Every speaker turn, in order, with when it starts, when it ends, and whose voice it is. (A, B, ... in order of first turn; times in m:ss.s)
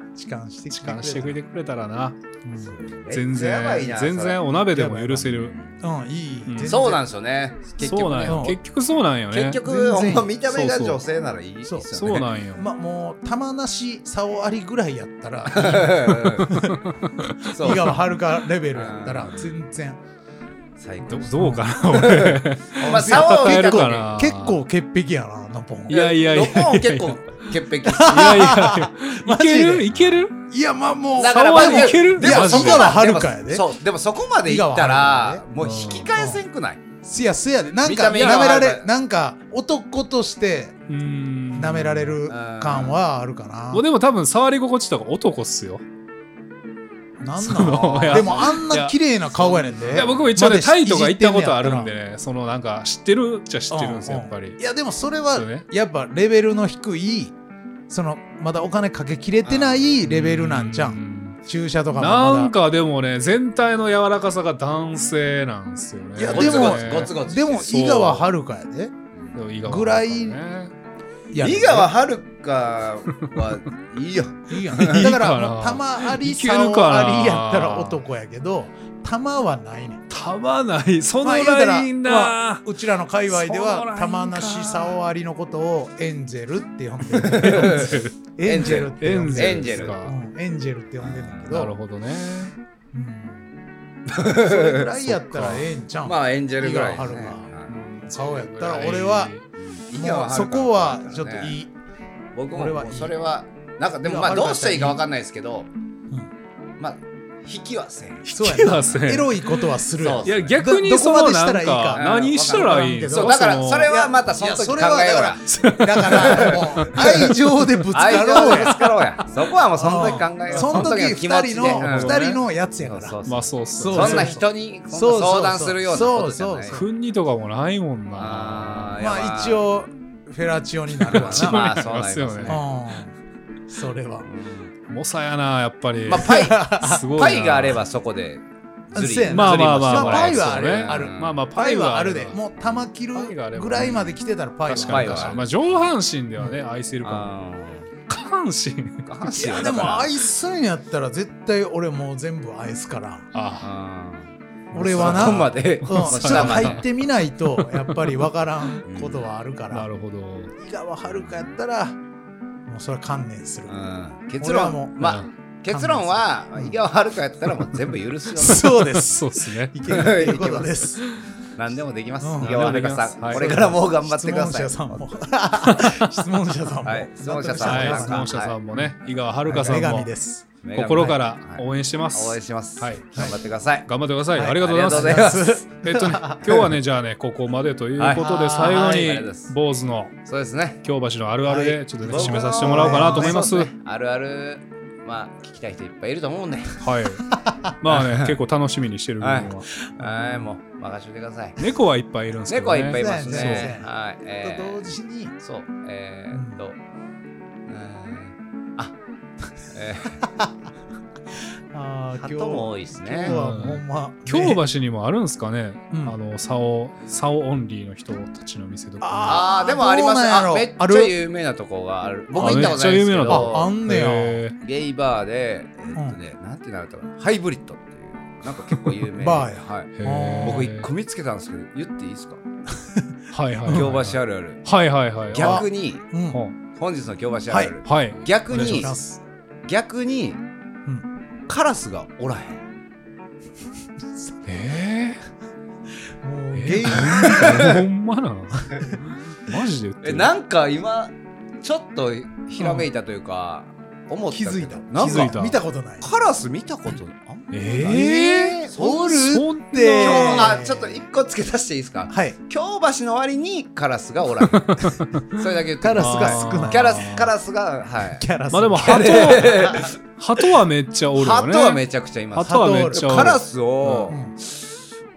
0:00.2-0:01.4 A
0:00.7-0:02.2 B
0:02.4-0:02.7 A
0:02.6-0:04.4 C
0:03.1-0:05.6 B
0:04.7-0:07.0 A
0:05.2-0:05.7 C
0:06.5-0:06.8 B
0:06.7-0:08.6 C
0:07.8-0:09.6 B
0:08.3-0:08.6 A
0:09.3-0:12.3 C
0:09.6-0:10.3 A
0:10.4-0:11.0 B
0:11.6-0:16.8 A
0:11.9-0:12.6 B
0:15.5-0:16.6 C
0:16.5-0:17.8 B
0:17.5-0:18.0 C
0:17.5-0:20.0 A
0:18.7-0:19.5 C
0:20.8-0:24.1 C
0:21.1-0:24.6 B
0:21.3-0:21.7 A
0:22.8-0:26.0 A
0:25.9-0:27.4 B
0:25.9-0:28.3 C
0:27.8-0:29.9 A
0:28.0-0:30.4 B
0:29.9-0:30.2 C
0:30.5-0:33.7 A
0:31.2-0:36.8 C
0:31.2-0:33.0 B
0:34.4-0:35.4 A
0:35.6-0:36.1 B
0:36.1-0:36.4 A
0:37.0-0:40.8 A
0:37.8-0:38.9 C
0:38.1-0:38.4 B
0:40.9-0:42.2 B
0:41.5-0:43.8 A
0:42.3-0:43.0 C
0:43.7-0:45.8 B
0:47.2-0:51.9 A
0:47.4-0:49.0 B
0:47.8-0:48.6 C
0:49.4-0:50.4 C
0:49.8-0:54.6 B
0:53.7-0:57.3 A
0:55.3-0:55.6 B
0:57.9-1:02.5 A
0:59.4-1:00.0 C
1:00.0-1:01.4 B
1:01.9-1:08.2 B
1:06.2-1:08.9 A
1:06.3-1:07.7 C
1:09.3-1:10.7 B
1:09.6-1:10.4 A
1:11.3-1:11.9 A
1:11.4-1:15.1 C
1:14.5-1:20.0 A
1:14.8-1:18.0 B
1:20.1-1:22.6 B
1:21.2-1:31.7 A
1:23.3-1:25.0 B
1:27.1-1:30.0 C
1:27.2-1:28.1 B
1:28.7-1:30.1 B
1:31.0-1:31.4 C
1:31.4-1:32.5 B
1:32.9-1:33.5 A
1:34.0-1:37.8 C
1:34.2-1:37.5 A
1:37.7-1:39.4 B
1:38.0-1:39.3 A
1:39.5-1:41.5 C
1:39.9-1:41.7 A
1:42.3-1:45.7 C
1:42.5-1:43.1 A
1:44.0-1:45.0 A
1:46.8-1:49.0 C
1:48.2-1:49.6 B
1:48.3-1:58.8 A
1:50.0-1:50.6 C
1:50.2-1:53.9 B
1:51.9-1:55.4 C
1:55.5-1:57.3 B
1:56.0-1:57.3 C
1:57.9-2:06.8 C
1:59.8-2:03.2 A
2:00.5-2:01.0 B
2:01.7-2:02.4 B
2:03.3-2:04.4 B
2:03.7-2:06.9 A
2:06.7-2:09.0 B
2:08.1-2:09.7 C
2:09.0-2:11.6 A
2:11.1-2:12.6 B
2:11.1-2:12.6 C
2:12.4-2:13.1 A
2:13.7-2:14.3 A
2:14.2-2:14.7 C
2:14.9-2:17.8 B
2:16.0-2:21.4 C
2:16.2-2:17.0 A
2:18.9-2:25.4 A
2:19.3-2:24.2 B
2:24.7-2:27.3 B
2:24.8-2:25.9 C
2:27.0-2:27.9 C
2:28.1-2:29.0 B
2:29.0-2:30.1 C
2:29.3-2:33.3 A
2:33.3-2:33.7 B
2:33.6-2:36.8 C
2:34.7-2:39.9 A
2:34.7-2:36.8 B
2:37.6-2:38.3 B
2:38.8-2:39.3 C
2:39.7-2:40.5 B
2:40.6-2:42.0 A
2:42.7-2:43.8 A
2:43.7-2:48.8 C
2:44.4-2:45.2 A
2:45.0-2:45.3 B
2:45.7-2:46.7 A
2:48.4-2:51.0 A
2:48.9-2:49.8 B
2:49.9-2:50.8 C
2:51.6-2:55.3 C
2:52.2-2:58.9 A
2:52.4-2:53.5 B
2:55.6-2:55.9 B
2:56.8-2:58.6 C
2:57.6-3:00.1 B
2:59.4-3:01.2 A
3:00.6-3:03.9 C
3:00.7-3:03.3 B
3:03.8-3:10.2 B
3:04.3-3:06.4 A
3:04.4-3:05.6 C
3:08.0-3:09.5 C
3:08.2-3:08.6 A
3:10.2-3:10.8 C
3:10.8-3:13.7 B
3:11.5-3:13.5 A
3:12.0-3:16.8 C
3:16.8-3:19.7 B
3:17.4-3:17.7 A
3:17.9-3:18.4 C
3:19.2-3:21.6 C
3:20.0-3:20.5 A
3:21.6-3:23.7 B
3:22.5-3:26.8 C
3:22.9-3:23.9 A
3:24.4-3:25.3 A
3:26.3-3:26.6 A
3:27.7-3:29.0 C
3:29.7-3:30.2 C
3:30.2-3:30.5 A
3:31.7-3:34.6 A
3:32.2-3:33.4 C
3:33.2-3:39.4 B
3:39.0-3:41.1 A
3:39.2-3:43.7 C
3:42.3-3:44.5 B
3:42.4-3:42.7 A
3:43.2-3:44.4 A
3:44.6-3:52.4 C
3:49.2-3:50.6 A
3:50.0-3:50.9 B
3:53.3-3:55.6 B
3:53.6-3:54.6 C
3:55.3-3:56.0 C
3:55.4-3:56.4 A
3:56.7-3:58.9 C
3:57.5-3:57.8 A
3:57.8-3:58.9 B
3:58.5-3:59.2 A
3:59.6-4:00.4 C
4:01.5-4:02.6 C
4:04.4-4:05.2 B
4:06.2-4:07.8 A
4:06.5-4:10.3 B
4:06.9-4:07.8 C
4:08.6-4:09.0 A
4:10.0-4:15.4 C
4:12.6-4:12.8 A
4:14.3-4:16.1 A
4:15.0-4:15.6 B
4:16.0-4:19.4 C
4:17.5-4:20.6 B
4:17.8-4:21.0 A
4:20.0-4:30.0 C
4:22.1-4:22.4 A
4:24.4-4:25.2 B
4:25.8-4:27.1 A
4:26.0-4:27.3 B
4:28.1-4:29.5 A
4:28.5-4:31.8 B
4:31.2-4:34.8 C
4:32.3-4:34.1 B
4:32.4-4:33.4 A
4:34.1-4:34.3 A